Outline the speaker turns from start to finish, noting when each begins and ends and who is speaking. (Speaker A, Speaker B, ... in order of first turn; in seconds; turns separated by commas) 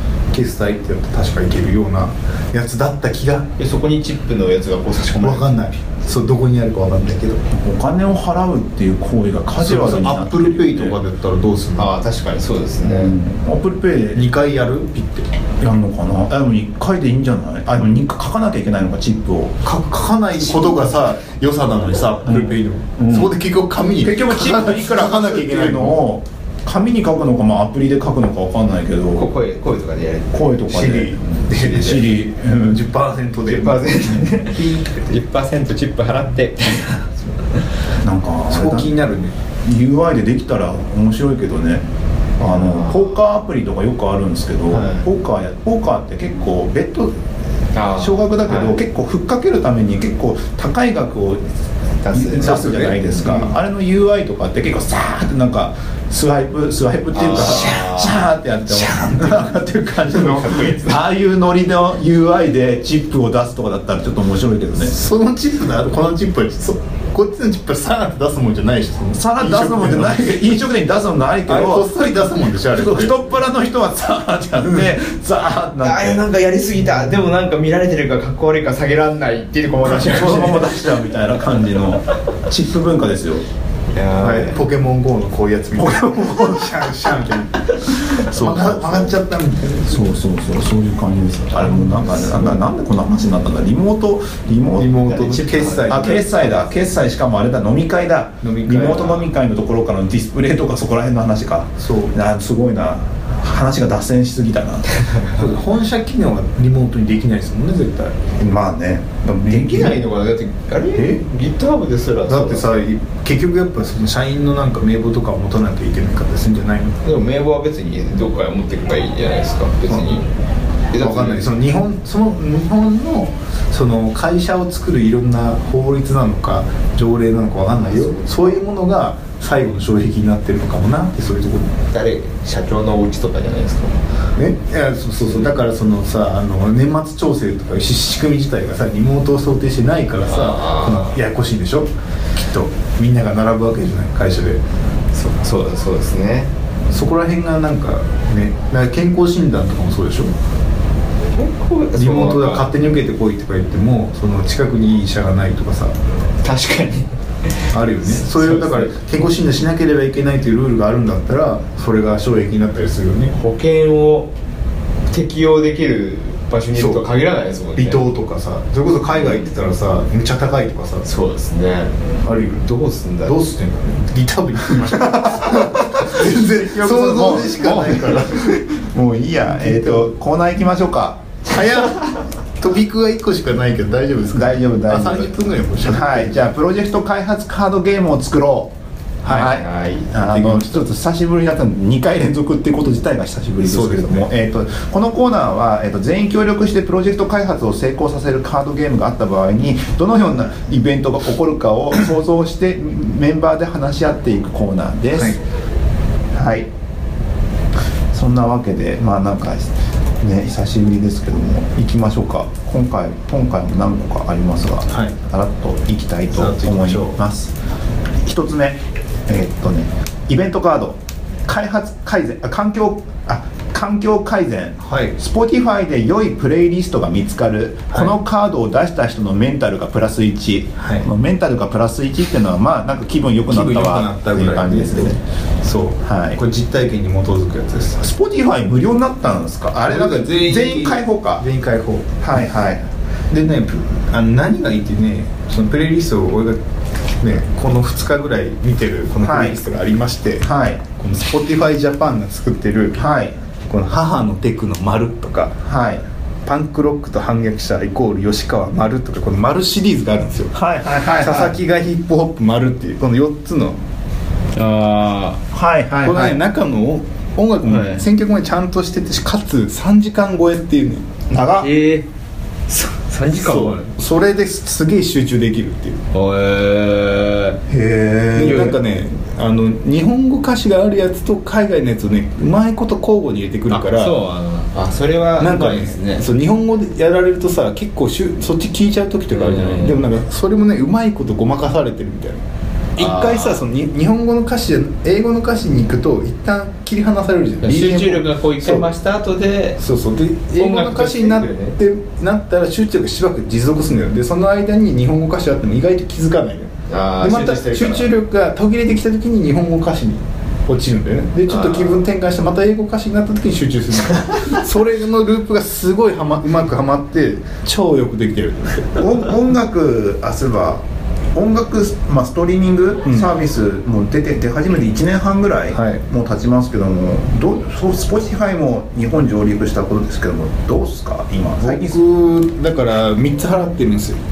Speaker A: 0.3-3.5, Speaker B: 3.6-5.7, Speaker A: 5.2-7.5, Speaker C: 7.5-11.0, Speaker A: 9.6-11.9, Speaker B: 11.8-13.1, Speaker C: 12.8-14.3, Speaker A: 14.1-15.3, Speaker C: 15.6-19.5, Speaker A: 19.6-26.0, Speaker C: 20.4-20.9, Speaker C: 22.2-23.3, Speaker C: 24.0-29.3, Speaker B: 29.1-30.4, Speaker C: 30.3-32.8, Speaker A: 30.7-35.0, Speaker B: 31.5-32.1, Speaker B: 33.5-37.7, Speaker C: 38.0-38.9, Speaker A: 38.5-39.3, Speaker C: 39.6-41.9, Speaker C: 42.4-47.2, Speaker B: 42.4-43.1, Speaker B: 44.7-45.1, Speaker B: 47.7-48.8, Speaker C: 47.8-51.4, Speaker B: 52.0-53.5, Speaker C: 52.1-64.9, Speaker B: 57.1-58.3, Speaker A: 58.7-59.5, Speaker B: 60.0-61.0, Speaker A: 64.8-70.3, Speaker C: 69.1-76.2, Speaker A: 71.5-73.3, Speaker B: 75.8-80.9, Speaker C: 79.9-83.4, Speaker B: 83.9-84.6, Speaker A: 84.2-90.1, Speaker C: 85.8-86.8, Speaker C: 88.0-89.2, Speaker C: 89.9-105.0, Speaker A: 94.8-96.4, Speaker B: 95.2-96.6, Speaker A: 98.4-99.2, Speaker B: 98.8-99.2, Speaker A: 101.8-102.1, Speaker A: 105.3-108.3, Speaker C: 108.4-110.0, Speaker B: 109.5-112.8, Speaker A: 110.9-111.2, Speaker A: 112.3-117.0, Speaker B: 117.0-120.3, Speaker B: 120.9-121.5, Speaker A: 121.0-131.7, Speaker B: 127.7-128.5, Speaker B: 131.9-134.0, Speaker A: 134.3-144.6, Speaker B: 135.2-135.5, Speaker B: 140.3-141.2, Speaker B: 145.1-146.5, Speaker A: 146.9-150.3, Speaker B: 151.3-152.7, Speaker A: 151.9-155.9, Speaker B: 156.4-158.9, Speaker A: 157.7-163.3, Speaker B: 163.3-164.3, Speaker B: 165.1-168.1, Speaker A: 166.7-167.0, Speaker A: 167.8-171.1, Speaker B: 169.1-169.5, Speaker B: 171.0-171.9, Speaker A: 172.2-172.7, Speaker B: 172.6-173.3, Speaker A: 173.2-178.6, Speaker C: 175.1-181.3, Speaker A: 179.5-180.1, Speaker A: 181.4-186.4, Speaker C: 184.3-188.7, Speaker A: 189.2-190.8, Speaker C: 189.2-205.3, Speaker B: 189.3-190.1, Speaker A: 193.6-194.3, Speaker A: 205.1-205.4, Speaker C: 206.3-206.7, Speaker C: 208.1-217.5, Speaker A: 214.9-215.1, Speaker A: 216.3-217.2, Speaker C: 218.2-235.2, Speaker A: 224.8-225.2, Speaker A: 230.8-231.1, Speaker A: 233.5-238.0, Speaker C: 236.0-236.4, Speaker C: 238.0-241.4, Speaker A: 239.8-242.1, Speaker C: 242.2-242.9, Speaker A: 243.3-246.6, Speaker A: 247.2-253.0, Speaker C: 249.2-249.6, Speaker C: 250.4-250.8, Speaker C: 252.9-253.4, Speaker A: 253.7-255.6, Speaker C: 255.6-256.0, Speaker A: 256.4-260.6, Speaker C: 260.5-261.6, Speaker A: 261.2-263.8, Speaker B: 264.5-265.4, Speaker C: 265.5-266.4, Speaker A: 266.0-271.1, Speaker B: 267.6-268.0, Speaker C: 271.3-271.7, Speaker B: 271.5-272.1, Speaker B: 272.7-273.9, Speaker A: 273.3-276.0, Speaker B: 276.1-277.6, Speaker C: 277.7-278.8, Speaker A: 278.3-284.1, Speaker B: 283.7-286.3, Speaker A: 285.4-292.4, Speaker B: 289.3-290.0, Speaker A: 292.9-298.9, Speaker B: 293.0-293.6, Speaker B: 297.6-299.8, Speaker A: 299.8-319.0, Speaker B: 300.6-301.8, Speaker B: 306.9-308.1, Speaker B: 311.5-312.0, Speaker C: 318.9-332.0, Speaker A: 325.7-326.0, Speaker A: 331.6-334.2